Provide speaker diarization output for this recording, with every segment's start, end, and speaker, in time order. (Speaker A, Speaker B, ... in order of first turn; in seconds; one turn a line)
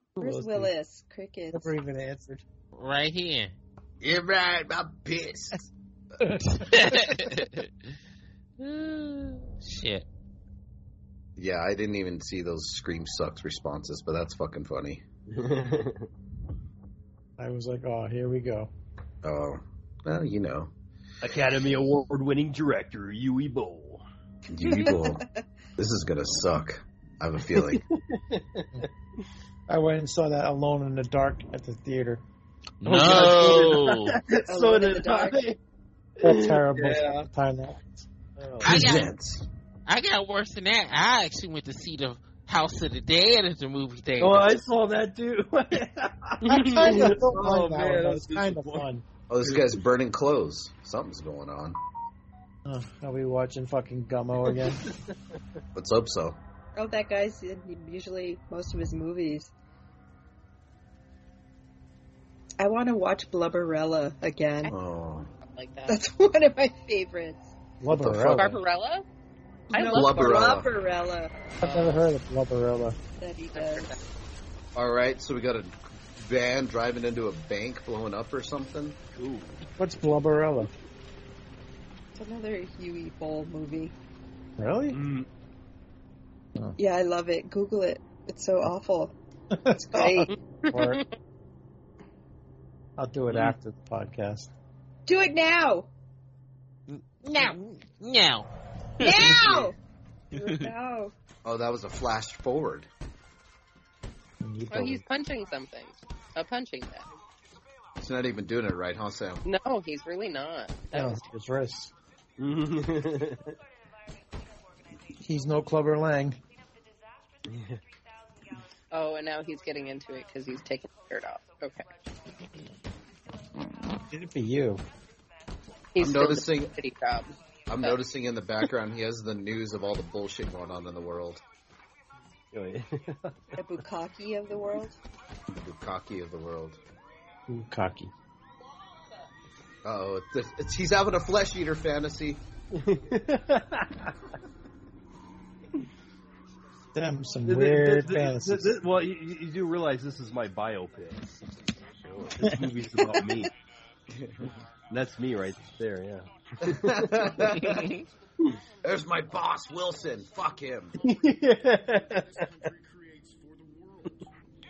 Speaker A: 0.2-1.7
Speaker B: 0.2-0.7
Speaker B: 1.5-2.4
Speaker C: 2.8-3.5
Speaker D: 4.0-5.7
Speaker B: 6.2-7.2
Speaker C: 6.5-7.7
Speaker C: 8.6-10.1
Speaker D: 11.4-15.0
Speaker E: 15.3-16.1
Speaker B: 17.4-18.7
Speaker D: 19.2-20.7
Speaker E: 21.2-24.0
Speaker D: 24.5-25.2
Speaker A: 24.6-25.4
Speaker D: 25.8-27.8
Speaker E: 27.5-28.9
Speaker B: 29.7-32.2
Speaker C: 32.8-34.2
Speaker E: 32.9-35.6
Speaker A: 34.5-35.5
Speaker E: 36.2-37.3
Speaker B: 36.2-38.8
Speaker C: 38.6-39.1
Speaker D: 38.6-39.5
Speaker C: 39.9-44.6
Speaker E: 44.2-48.9
Speaker B: 46.5-49.0
Speaker D: 49.3-51.8
Speaker E: 49.4-49.8
Speaker B: 52.6-54.9
Speaker E: 54.5-55.1
Speaker D: 55.7-56.4
Speaker A: 56.8-59.5
Speaker A: 62.6-64.7
Speaker D: 64.6-65.3
Speaker F: 65.5-66.0
Speaker A: 65.9-67.5
Speaker B: 67.8-68.6
Speaker D: 67.9-68.6
Speaker F: 68.3-69.1
Speaker A: 69.7-71.3
Speaker F: 69.7-70.3
Speaker D: 69.8-70.7
Speaker B: 71.6-73.0
Speaker F: 71.6-72.0
Speaker A: 73.2-73.9
Speaker F: 73.5-74.0
Speaker D: 74.8-79.0
Speaker E: 79.1-79.6
Speaker B: 79.8-80.7
Speaker A: 82.2-83.9
Speaker B: 84.6-85.0
Speaker E: 84.9-85.3
Speaker A: 86.8-89.1
Speaker B: 89.5-91.0
Speaker A: 89.8-90.3
Speaker F: 90.3-91.0
Speaker B: 93.0-94.5
Speaker A: 95.1-95.9
Speaker C: 96.9-98.5
Speaker C: 99.0-99.7
Speaker A: 99.0-99.8
Speaker C: 100.3-100.7
Speaker A: 100.3-101.1
Speaker D: 101.5-102.9
Speaker B: 104.4-105.0
Speaker F: 104.7-107.1
Speaker D: 108.0-109.4
Speaker F: 109.5-111.2
Speaker B: 110.9-111.9
Speaker E: 112.4-113.5
Speaker B: 115.2-116.4
Speaker E: 117.5-117.8
Speaker F: 118.9-121.9
Speaker B: 124.1-124.8
Speaker F: 126.0-128.0
Speaker D: 126.0-126.7
Speaker D: 127.7-131.4
Speaker E: 132.5-133.5
Speaker A: 133.6-135.0
Speaker D: 135.5-136.8
Speaker B: 137.5-138.1
Speaker D: 139.8-142.4
Speaker E: 142.7-144.1
Speaker B: 146.9-148.8
Speaker E: 147.4-151.3
Speaker D: 152.1-152.3
Speaker E: 152.2-153.5
Speaker D: 154.1-154.5
Speaker E: 154.9-157.3
Speaker D: 156.6-158.0
Speaker C: 157.7-158.0
Speaker D: 158.8-161.0
Speaker E: 161.0-162.5